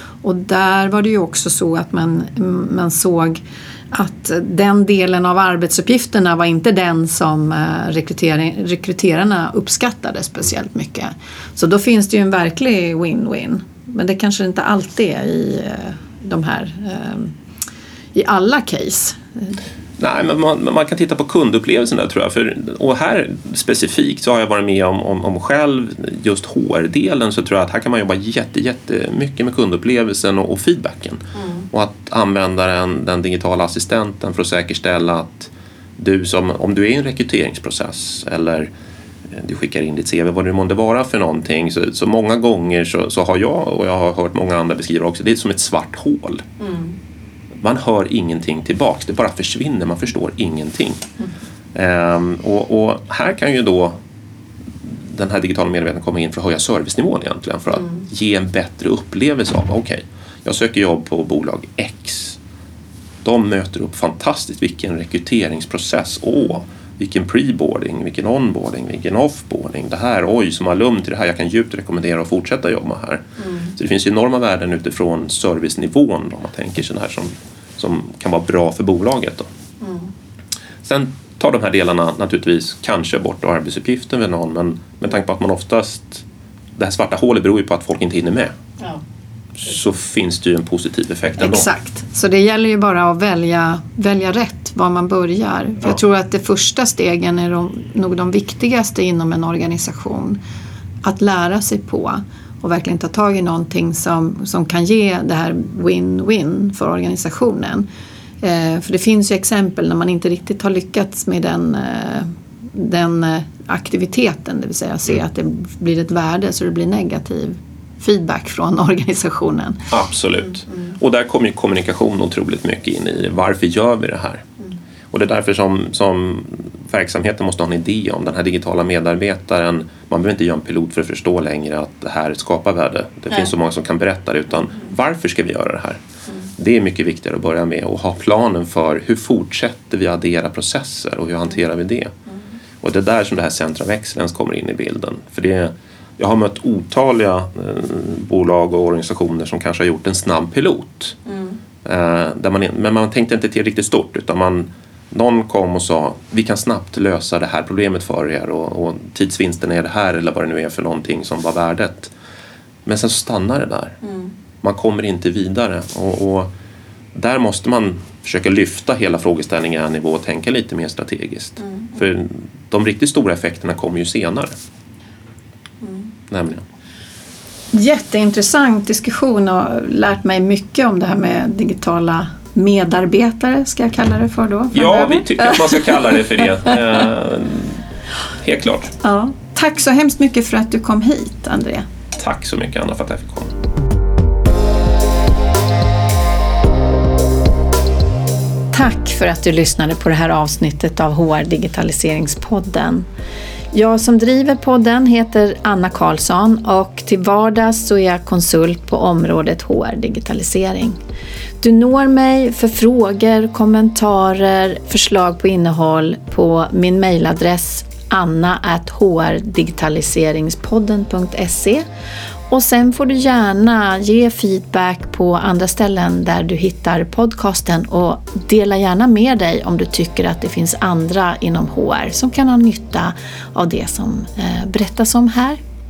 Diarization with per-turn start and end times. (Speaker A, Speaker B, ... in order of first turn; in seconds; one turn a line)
Speaker A: 0.2-17.3
Speaker A: 18.1-19.6
Speaker B: 20.0-38.7
Speaker A: 31.4-31.6
Speaker B: 39.3-46.4
Speaker A: 46.6-46.9
Speaker B: 47.6-51.1
Speaker B: 51.7-54.0
Speaker B: 54.8-62.4
Speaker B: 63.2-79.5
Speaker A: 73.5-73.7
Speaker A: 79.8-80.1
Speaker B: 80.8-86.2
Speaker B: 86.8-88.5
Speaker B: 89.6-91.7
Speaker A: 91.4-100.4
Speaker A: 101.0-107.9
Speaker A: 108.4-119.9
Speaker B: 119.9-124.4
Speaker B: 125.1-136.0
Speaker B: 136.6-142.1
Speaker B: 142.8-151.2
Speaker B: 151.8-162.1
Speaker B: 162.8-164.0
Speaker B: 164.6-166.5
Speaker B: 167.1-174.5
Speaker A: 171.7-171.9
Speaker B: 176.3-176.6
Speaker A: 177.7-185.8
Speaker B: 184.7-187.8
Speaker B: 188.4-188.9
Speaker A: 189.0-191.8
Speaker B: 192.1-193.5
Speaker A: 198.7-203.1
Speaker A: 203.7-211.0
Speaker A: 211.6-221.8
Speaker A: 222.5-235.6